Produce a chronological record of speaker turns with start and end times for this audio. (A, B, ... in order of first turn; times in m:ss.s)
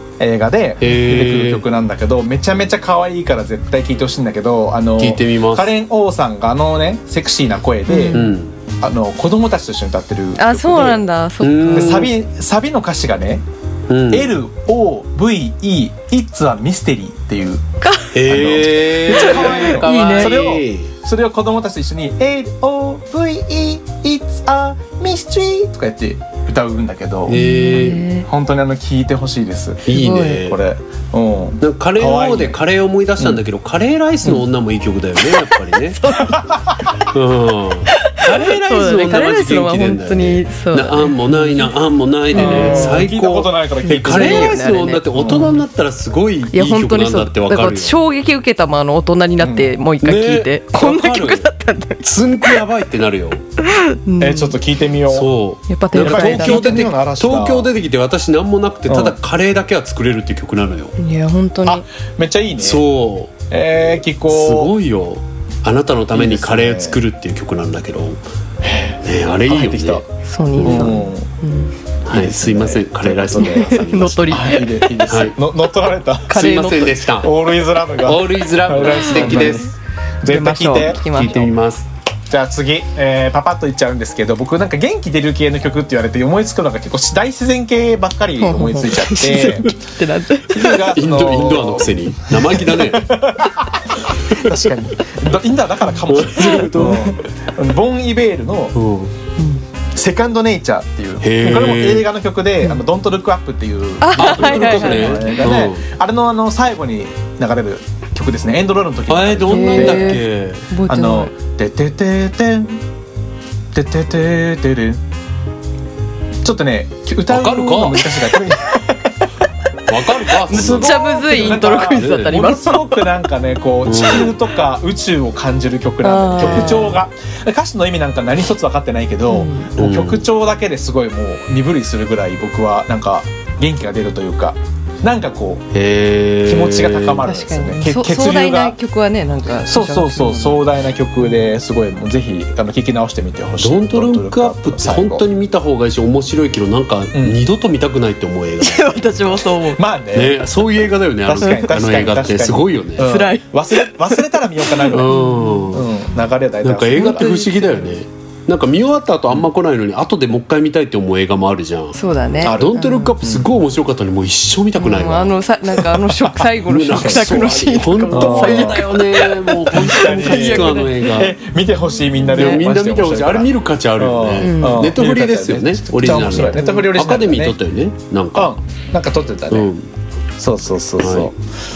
0:00.2-0:11.0 A
0:00.8-0:01.6 B
0:05.0-0:05.7 B
0:07.9-0:08.2 C
0:08.1-0:08.5 B
0:10.4-0:12.1 C
0:11.4-0:12.1 B
0:11.7-0:13.4 A
0:13.9-0:14.3 B
0:14.1-0:17.6 A
0:17.8-0:18.1 C
0:18.1-0:20.9 B
0:18.1-0:32.6 A
0:19.1-0:20.3 C
0:27.2-0:28.1 B
0:27.3-0:28.2 C
0:29.8-0:30.6 B
0:29.9-0:30.4 C
0:31.6-0:36.1 B
0:35.2-0:36.6 C
0:36.2-0:36.8 A
0:37.1-0:48.0 B
0:37.9-0:41.7 C
0:42.3-0:43.1 C
0:42.3-0:44.6 A
0:43.8-0:45.6 C
0:45.2-0:45.5 A
0:46.5-0:52.0 C
0:49.4-0:49.7 A
0:50.0-0:51.5 B
0:52.0-0:53.4 B
0:53.6-0:54.6 C
0:54.2-0:55.3 A
0:55.1-1:01.0 B
0:55.7-0:56.9 C
0:55.9-0:57.7 A
0:58.9-0:59.2 A
1:01.0-1:01.8 C
1:01.6-1:02.8 A
1:02.6-1:03.3 B
1:03.5-1:04.7 A
1:04.3-1:08.2 B
1:06.1-1:07.0 A
1:08.6-1:10.0 A
1:09.0-1:11.0 B
1:10.3-1:11.7 C
1:10.6-1:11.3 A
1:12.0-1:15.4 B
1:12.1-1:13.7 A
1:13.3-1:15.3 C
1:14.3-1:16.4 A
1:16.3-1:16.9 C
1:16.3-1:17.3 B
1:17.2-1:19.7 A
1:18.0-1:19.7 B
1:18.9-1:19.7 C
1:20.2-1:21.0 A
1:20.3-1:21.5 C
1:21.0-1:21.9 B
1:22.3-1:29.8 A
1:28.4-1:30.9 C
1:30.5-1:38.7 A
1:30.9-1:33.1 B
1:36.0-1:37.1 B
1:36.4-1:37.2 C
1:38.7-1:39.1 B
1:39.9-1:50.2 A
1:41.2-1:42.1 B
1:44.0-1:45.5 C
1:44.1-1:45.8 B
1:49.1-1:50.6 B
1:49.5-1:51.3 C
1:50.9-1:52.8 A
1:53.7-1:55.0 A
1:56.4-1:59.3 A
1:57.3-1:58.2 B
1:59.9-2:02.4 B
2:00.4-2:03.1 C
2:00.4-2:15.6 A
2:03.8-2:04.4 B
2:06.0-2:07.0 C
2:06.4-2:06.9 B
2:09.3-2:09.7 C
2:09.8-2:10.3 B
2:15.7-2:17.2 B
2:16.4-2:18.8 A
2:17.2-2:20.7 C
2:19.7-2:25.2 A
2:23.6-2:29.3 B
2:27.1-2:27.4 A
2:28.6-2:29.8 C
2:29.8-2:30.5 A
2:30.1-2:33.1 B
2:31.2-2:35.1 A
2:31.4-2:31.6 C
2:33.0-2:35.8 C
2:34.9-2:35.9 B
2:35.7-2:37.4 A
2:36.6-2:45.3 B
2:36.9-2:37.9 C
2:41.9-2:43.4 C
2:42.4-2:42.7 A
2:44.8-2:51.0 C
2:46.6-2:51.4 B
2:47.0-2:47.2 A
2:48.1-2:48.8 A
2:49.7-2:57.6 A
2:52.2-2:52.6 C
2:52.3-2:58.5 B
2:54.4-2:54.9 C
2:56.3-2:56.8 C
2:58.3-2:59.7 A
2:59.5-2:59.9 B
3:00.4-3:01.4 A
3:01.0-3:01.3 B